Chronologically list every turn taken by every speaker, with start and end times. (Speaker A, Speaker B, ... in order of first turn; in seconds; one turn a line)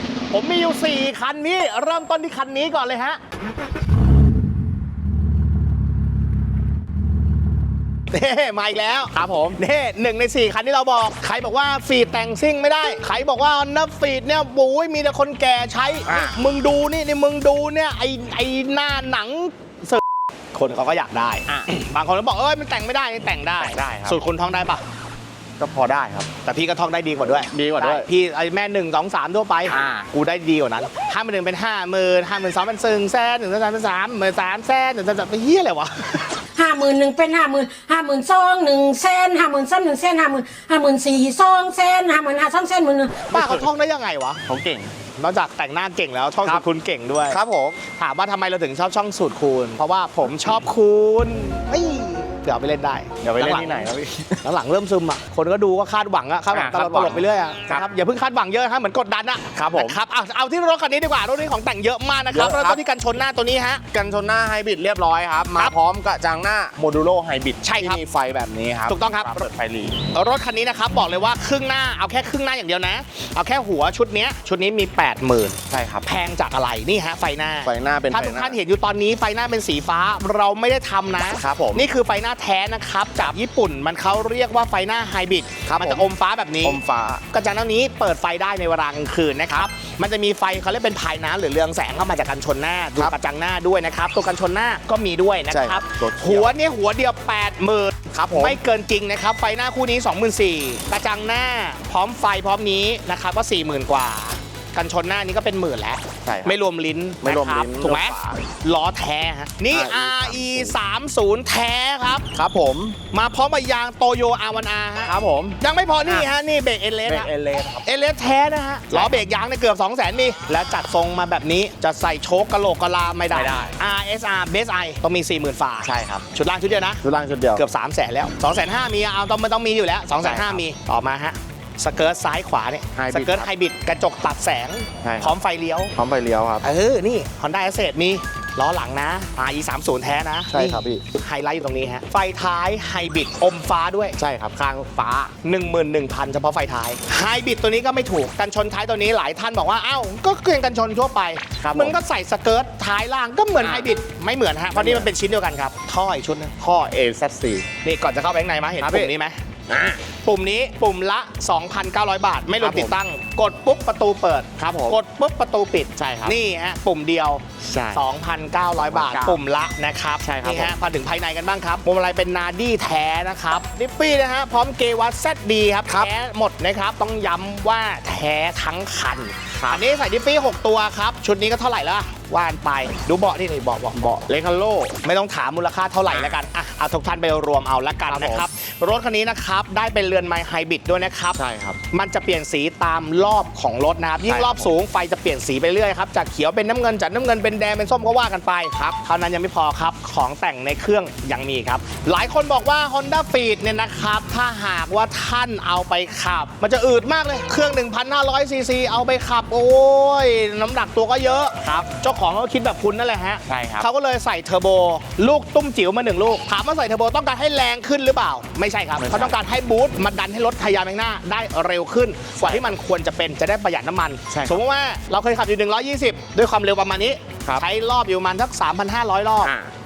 Speaker A: 0.3-3.2
Speaker A: 8.1-20.0
Speaker B: 9.1-9.6
Speaker B: 16.1-16.4
Speaker A: 20.5-24.8
Speaker B: 23.6-24.2
Speaker B: 25.6-26.3
Speaker A: 26.4-36.4
Speaker B: 27.5-28.1
Speaker B: 29.7-30.1
Speaker C: 36.5-43.2
Speaker A: 43.3-44.4
Speaker B: 43.3-43.7
Speaker B: 44.5-44.9
Speaker A: 45.2-47.4
Speaker B: 47.3-47.8
Speaker A: 48.0-53.9
Speaker B: 53.2-54.4
Speaker A: 54.4-63.8
Speaker B: 56.5-57.9
Speaker B: 59.5-60.0
Speaker B: 62.3-62.8
Speaker B: 63.9-70.0
Speaker A: 67.6-68.0
Speaker A: 68.9-69.5
Speaker A: 70.1-86.8
Speaker B: 75.7-76.1
Speaker B: 77.6-78.6
Speaker B: 81.3-81.9
Speaker B: 85.7-86.1
Speaker B: 86.6-87.2
Speaker A: 87.3-112.3
Speaker B: 95.5-96.5
Speaker B: 98.1-98.6
Speaker B: 106.2-106.6
Speaker B: 107.2-108.4
Speaker B: 109.7-110.7
Speaker B: 112.3-113.0
Speaker A: 113.1-117.3
Speaker B: 115.0-116.3
Speaker B: 117.0-117.9
Speaker A: 117.8-127.0
Speaker B: 118.9-119.2
Speaker B: 123.3-123.8
Speaker B: 125.8-126.2
Speaker B: 127.0-127.6
Speaker A: 127.6-135.9
Speaker B: 130.2-130.6
Speaker B: 132.9-133.5
Speaker B: 135.0-135.3
Speaker B: 135.9-136.7
Speaker A: 136.6-144.2
Speaker B: 140.5-141.0
Speaker B: 144.2-145.3
Speaker A: 145.4-156.6
Speaker B: 151.6-152.0
Speaker B: 153.6-153.9
Speaker B: 154.7-155.1
Speaker B: 156.6-157.7
Speaker A: 157.8-159.4
Speaker B: 158.8-159.1
Speaker B: 159.7-160.0
Speaker A: 160.2-184.2
Speaker B: 162.6-162.9
Speaker B: 164.6-165.0
Speaker B: 166.0-166.3
Speaker B: 167.6-168.0
Speaker B: 168.8-169.4
Speaker B: 170.2-170.8
Speaker B: 184.2-185.0
Speaker A: 185.0-191.4
Speaker B: 186.1-186.4
Speaker B: 188.1-188.5
Speaker B: 191.3-191.8
Speaker A: 191.9-229.5
Speaker B: 194.2-194.7
Speaker B: 213.5-213.9
Speaker B: 219.0-219.3
Speaker B: 222.4-222.7
Speaker B: 224.3-224.6
Speaker B: 229.4-229.7